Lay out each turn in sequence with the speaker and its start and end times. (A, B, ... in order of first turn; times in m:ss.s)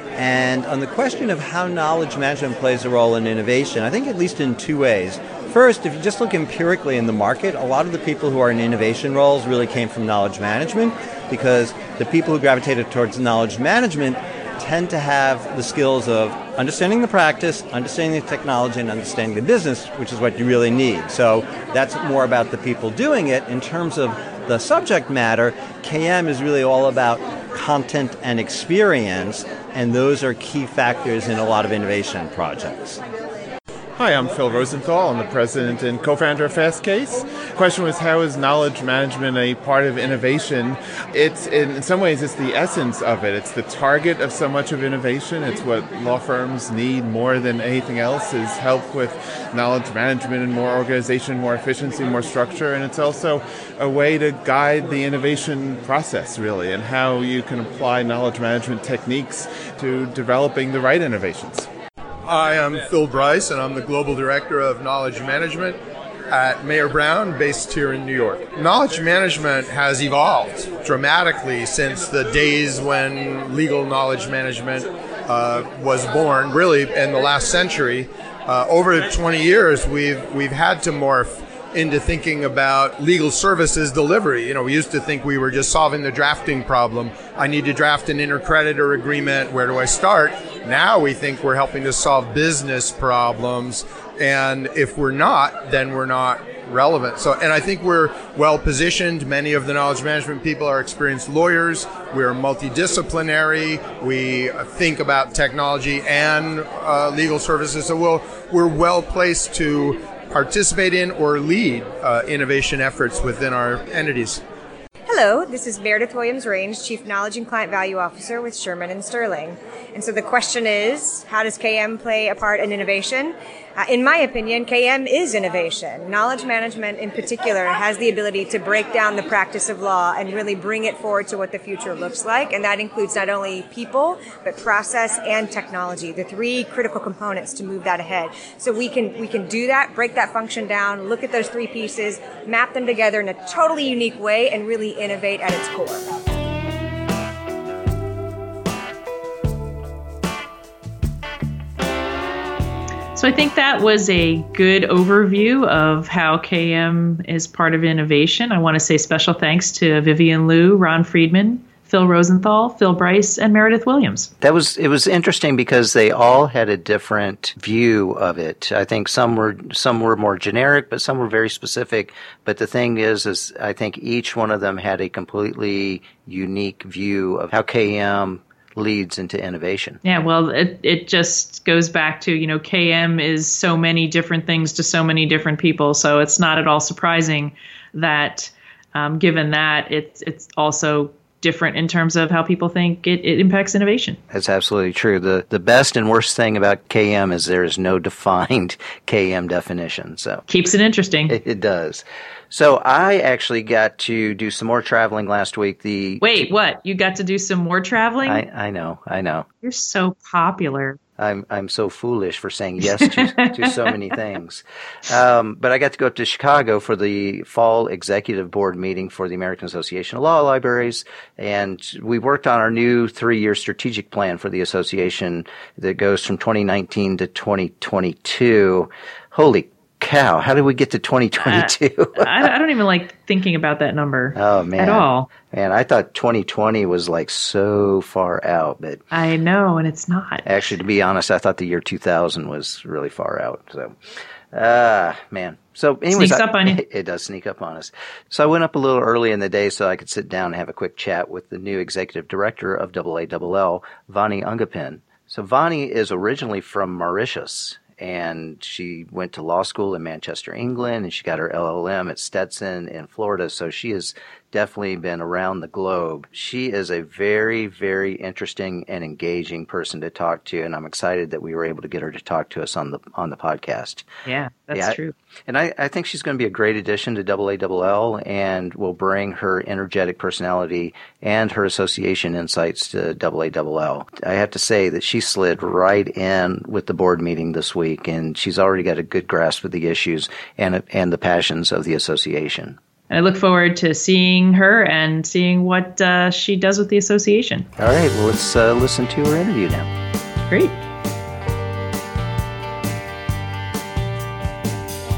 0:00.1-0:33.0 A
0:34.0-1:01.7 B
1:02.3-1:05.8 C
1:06.3-1:54.4 C
1:55.1-2:26.0 D
2:33.1-2:44.3 E
2:44.4-3:00.0 F
3:00.0-3:14.2 E
3:14.3-3:20.4 F
3:20.5-3:21.4 E
3:21.3-3:26.4 F
3:26.2-3:28.4 E
3:28.2-3:29.4 F
3:29.6-3:31.0 E
3:31.2-3:52.3 F
3:33.0-3:33.7 E
3:51.4-3:55.3 E
3:54.3-3:59.0 F
3:59.1-4:00.4 E
4:00.4-4:03.9 F
4:04.5-4:34.1 F
4:06.1-4:06.8 E
4:34.2-4:35.1 E
4:34.7-4:52.8 F
4:53.1-4:57.7 E
4:57.8-4:59.9 F
5:00.5-5:00.8 E